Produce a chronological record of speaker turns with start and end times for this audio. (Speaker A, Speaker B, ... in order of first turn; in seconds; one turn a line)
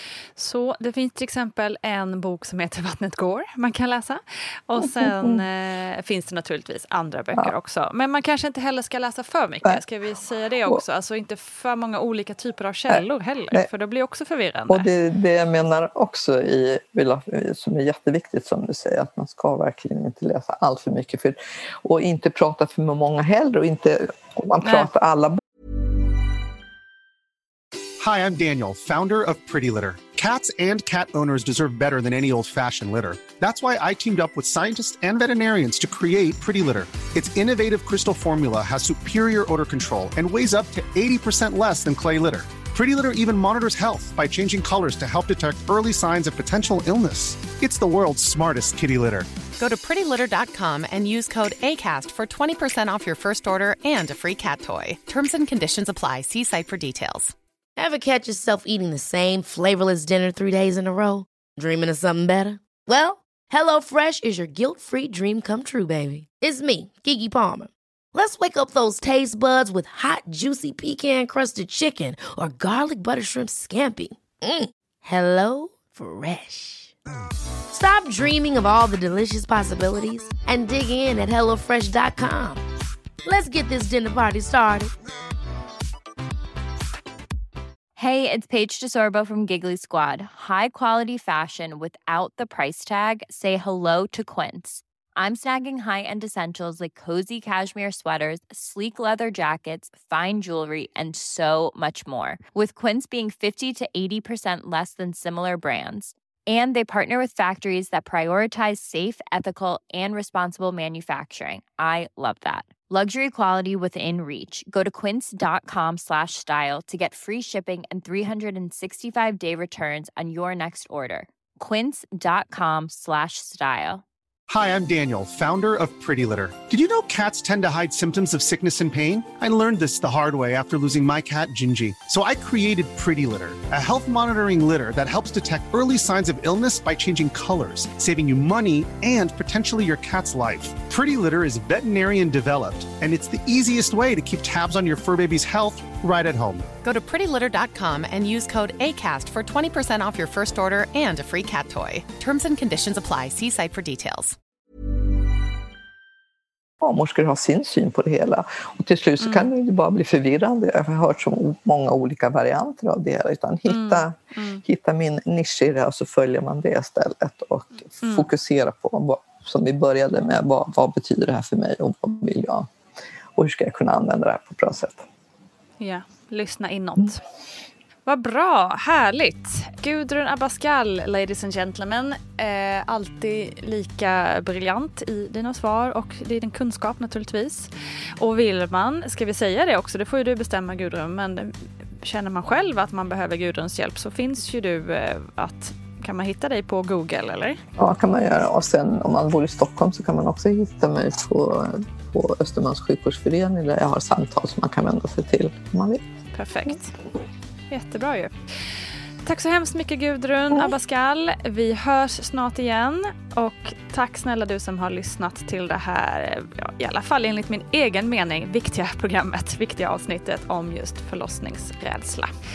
Speaker A: 0.4-14.9
Speaker B: 4.8-5.4
Speaker B: 12.9-13.7
Speaker B: 14.7-25.4
Speaker A: 24.6-24.9
Speaker C: 28.0-49.3
Speaker D: 49.6-57.3
Speaker E: 57.8-76.9
Speaker E: 77.7-82.6
Speaker E: 83.2-84.9
Speaker F: 88.0-124.0
Speaker C: 124.5-146.7
Speaker D: 146.8-154.4
Speaker B: 156.8-172.7
Speaker A: 159.2-159.5
Speaker A: 163.7-164.6
Speaker A: 168.0-168.3
Speaker B: 173.4-175.0
Speaker A: 175.8-177.2
Speaker A: 178.1-197.6
Speaker B: 197.8-206.0
Speaker A: 206.3-206.9
Speaker A: 207.7-208.3
Speaker A: 209.2-222.3